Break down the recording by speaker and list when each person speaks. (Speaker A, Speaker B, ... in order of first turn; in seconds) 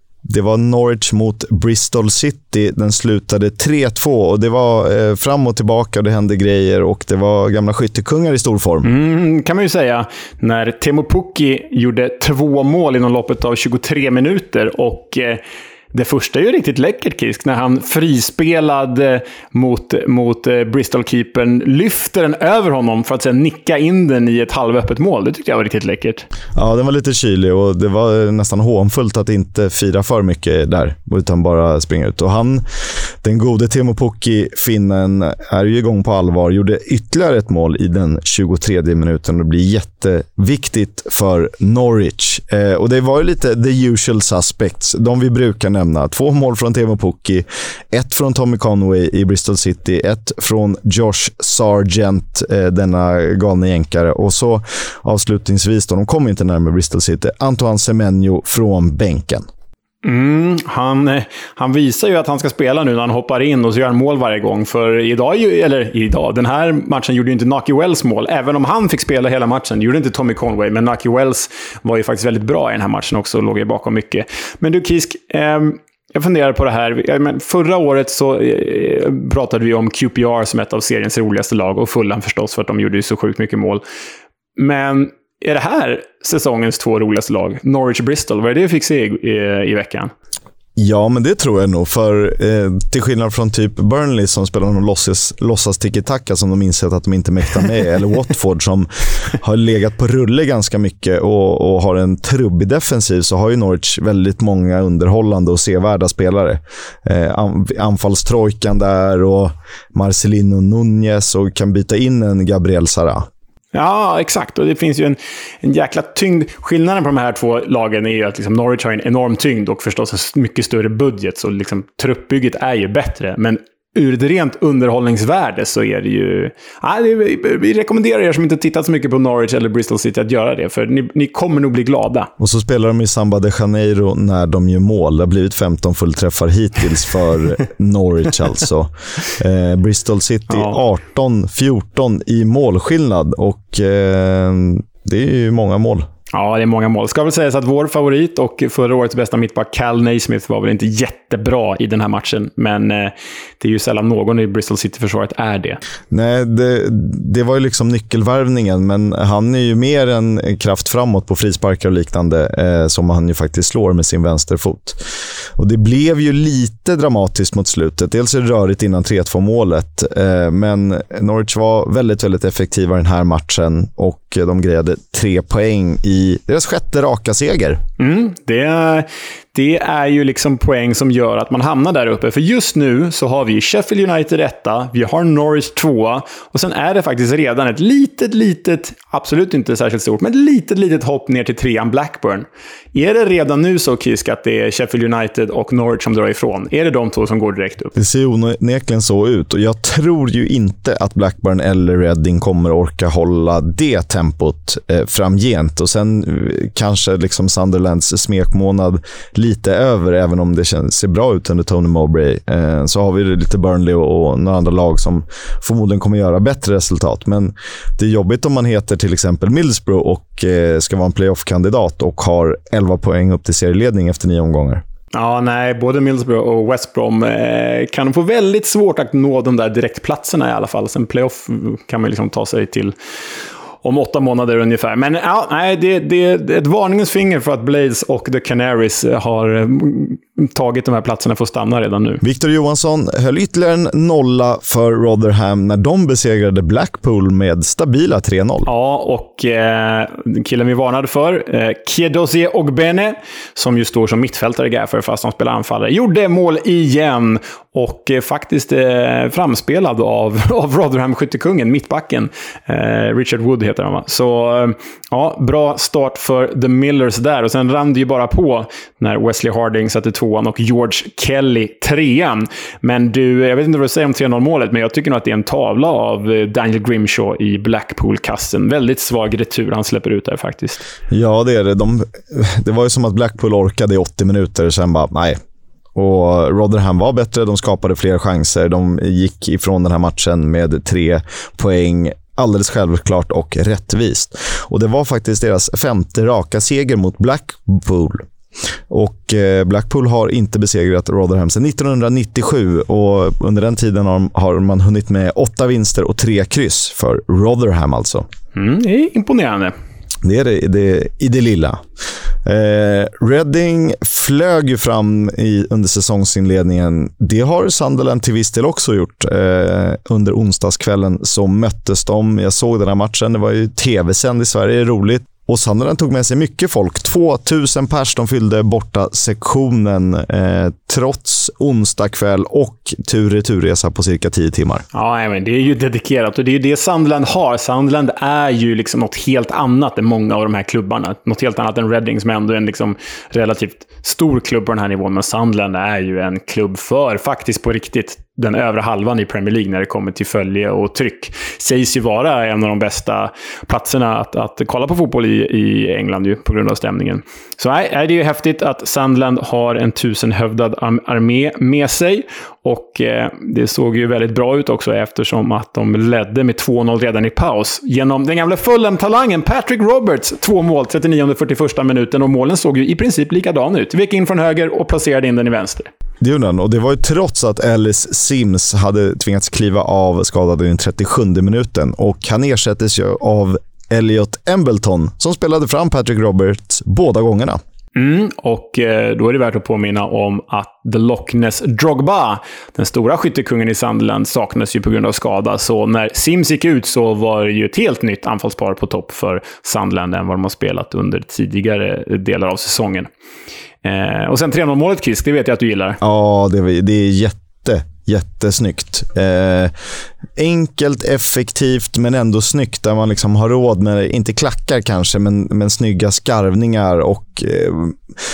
Speaker A: 0.2-8.9, 26.6-32.6, 33.2-59.5, 90.8-113.2, 132.4-146.1, 156.1-165.0, 165.6-177.8, 197.9-224.8, 242.2-248.7, 281.1-285.4, 285.9-298.2, 298.9-308.3, 310.2-311.8, 312.4-334.8, 376.2-387.6, 406.0-409.7, 410.4-418.0
Speaker B: 8.8-15.4, 15.9-26.2, 60.0-83.8, 84.5-90.1, 113.7-132.3, 140.5-140.8, 146.3-155.8, 178.0-197.9, 225.1-232.9, 233.8-242.2, 248.7-280.9, 308.5-309.7, 334.9-375.9, 387.9-403.1, 403.8-406.0